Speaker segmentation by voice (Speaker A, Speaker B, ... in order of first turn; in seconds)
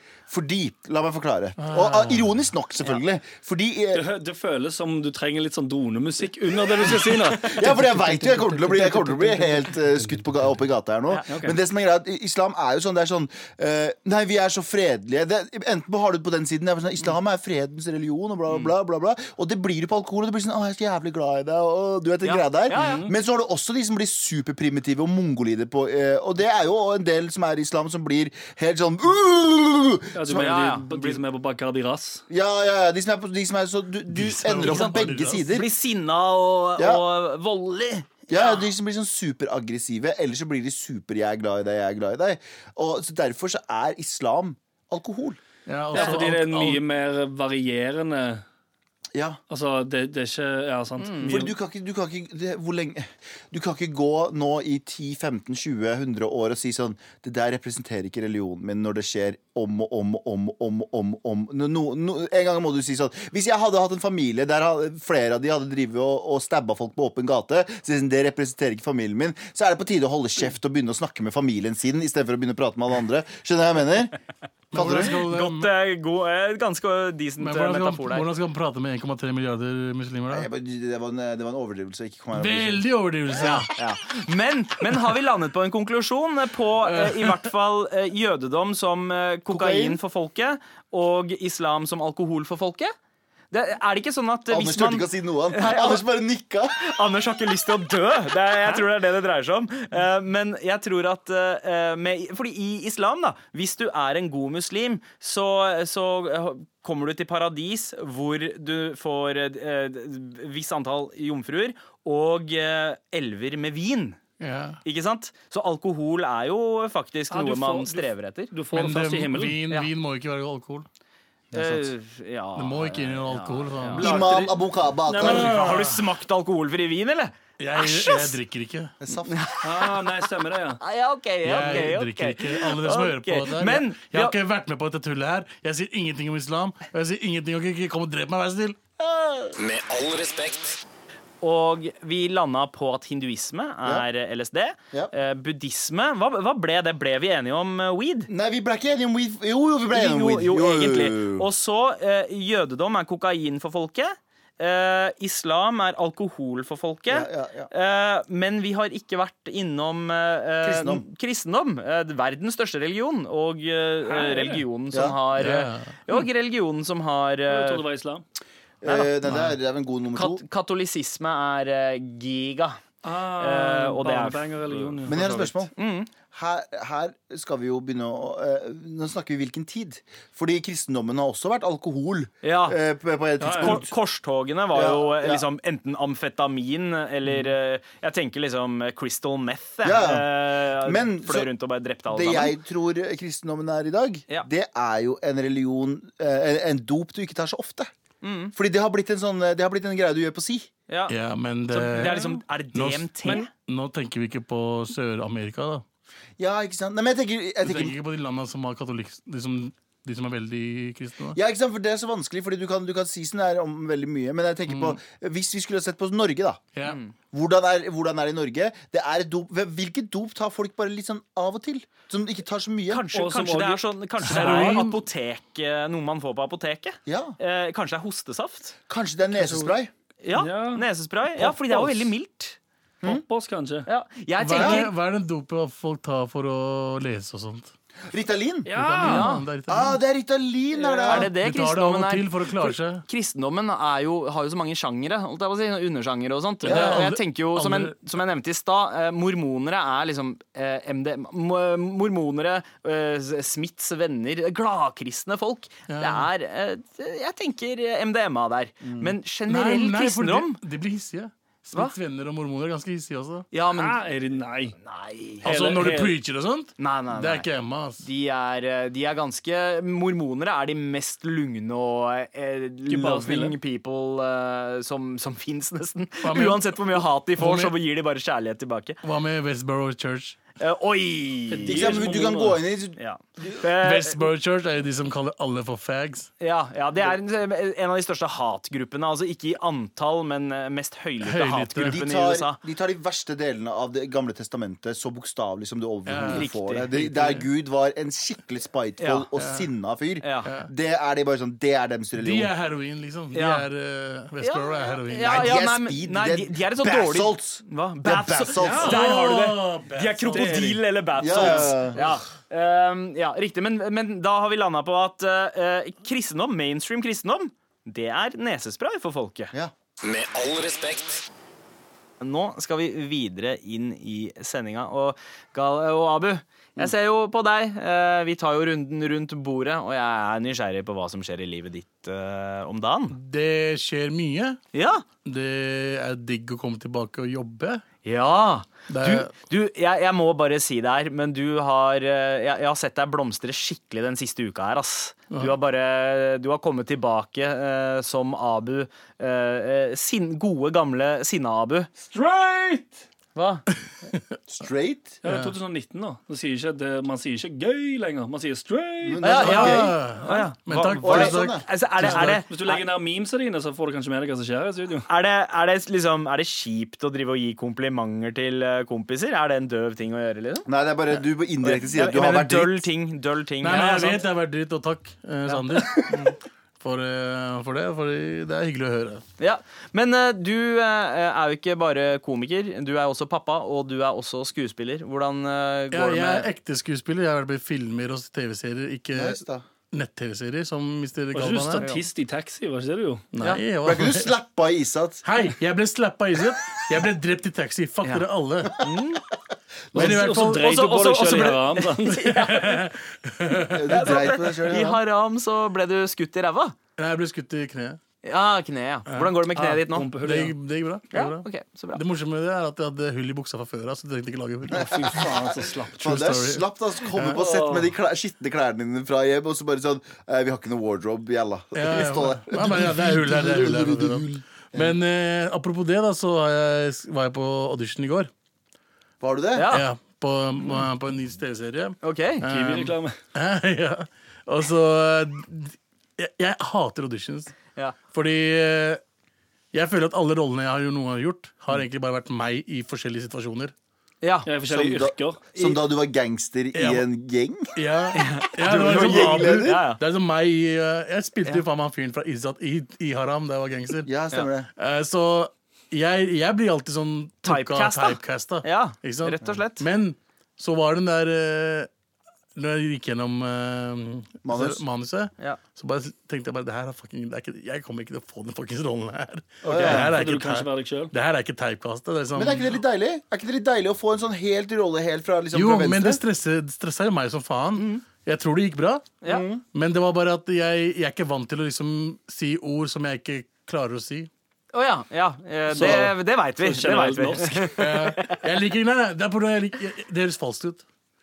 Speaker A: 0.3-4.0, 6.8-30.4, 32.3-35.7, 36.8-37.0, 38.3-45.4, 51.2-74.2, 74.7-75.2, 80.3-82.8, 89.5-90.0, 94.5-96.8, 121.5-121.9, 124.0-125.5, 129.0-129.4, 148.3-151.5, 157.1-157.7, 160.6-161.0, 164.9-165.2, 168.8-170.4, 175.1-175.7, 176.3-183.9, 184.7-185.4, 189.8-191.5, 192.1-197.9, 198.5-200.7, 206.4-208.0, 211.3-216.7, 217.3-223.1, 227.1-227.4, 228.9-229.9, 234.6-234.8, 238.1-238.7, 239.7-241.3, 246.7-247.0, 258.8-259.1, 281.6-283.6, 291.8-302.5, 305.2-309.0, 311.2-312.0, 354.5-355.2, 359.0-360.0, 361.0-361.6, 370.7-372.9, 389.1-389.6, 393.8-395.2, 403.7-405.0, 414.7-424.9, 429.2-429.7, 444.7-447.8, 448.6-449.8, 454.1-454.7, 464.4-464.8, 469.7-470.1, 472.4-476.2, 479.3-479.6
Speaker B: 1.6-2.2, 34.1-35.5, 45.7-46.8, 74.7-75.7, 77.4-80.5, 82.3-83.7, 86.8-87.5, 114.4-114.8, 118.7-120.9, 122.6-124.3, 125.2-126.1, 127.6-128.9, 131.4-138.8, 165.3-165.9, 201.1-205.8, 207.6-211.4, 214.7-215.0, 216.8-217.0, 224.2-225.0, 234.4-237.7, 238.7-240.0, 241.1-243.1, 246.7-247.9, 255.9-256.3, 259.5-263.5, 265.4-268.1, 276.2-277.8, 279.0-280.4, 283.8-286.3, 291.2-292.0, 296.1-297.5, 299.4-299.7, 300.4-300.7, 302.2-305.6, 308.7-310.8, 311.4-312.1, 333.1-334.6, 335.2-337.8, 338.9-339.3, 355.3-355.6, 359.4-362.4, 373.6-379.2, 385.9-389.4, 389.9-391.9, 393.3-394.4, 395.2-398.9, 399.9-400.7, 402.1-404.2, 407.0-408.0, 409.1-409.4, 410.2-415.4, 415.9-417.4, 421.8-428.3, 429.7-437.6, 438.1-439.0, 439.7-443.7, 446.7-447.1, 447.8-454.1, 454.8-461.9, 462.6-472.7, 475.5-479.1, 479.7-484.3, 485.8-486.1, 487.8-490.8
Speaker C: 3.9-9.7, 11.3-11.6, 22.7-23.1, 30.1-32.2, 45.9-48.4, 49.5-51.5, 117.3-119.6, 125.1-125.5, 129.6-130.8, 164.1-164.6, 167.5-168.2, 173.0-175.6, 183.4-183.8, 223.1-224.8, 230.3-232.1, 233.0-233.9, 238.7-239.3, 263.7-264.8, 265.4-266.2, 272.9-273.6, 281.5-282.6, 308.6-309.0, 310.3-310.7, 352.0-353.0, 355.2-359.2, 362.0-365.1, 391.3-393.4, 399.9-402.3, 409.6-410.6, 414.9-416.0, 417.2-417.9, 432.5-433.2, 444.5-445.4, 469.7-471.1, 485.7-487.7
Speaker D: 22.2-23.1, 30.4-31.2, 34.6-38.7, 46.0-46.2, 51.0-51.4, 74.8-78.3, 83.4-92.9, 93.5-96.0, 96.8-114.2, 114.8-118.5, 121.5-124.5, 125.1-128.4, 129.3-130.3, 130.8-134.4, 141.4-148.3, 149.9-167.8, 168.9-169.2, 170.2-172.8, 173.4-175.0, 175.8-176.1, 182.4-182.8, 183.6-192.6, 198.2-198.5, 200.9-201.2, 201.7-203.5, 216.8-217.1, 222.9-228.8, 230.2-232.6, 233.9-234.9, 239.0-239.4, 240.7-260.6, 263.5-264.0, 264.8-265.5, 266.8-267.5, 268.0-279.0, 280.6-282.0, 283.0-284.3, 286.4-292.6, 296.3-296.9, 299.0-299.3, 300.2-300.5, 303.3-303.7, 304.4-319.5, 322.2-333.2, 334.7-335.0, 338.0-351.9, 353.4-353.6, 359.2-362.8, 365.1-370.7, 371.6-374.2, 375.5-376.4, 379.4-386.5, 391.8-392.1, 398.8-399.2, 400.0-402.9, 403.9-406.8, 408.2-410.1, 411.1-412.0, 429.6-429.9, 432.0-432.5, 444.2-444.5, 445.6-445.8, 448.1-450.0, 457.4-459.9, 469.7-470.1, 477.8-478.0, 484.7-488.4
Speaker E: 139.6-140.8, 320.0-321.2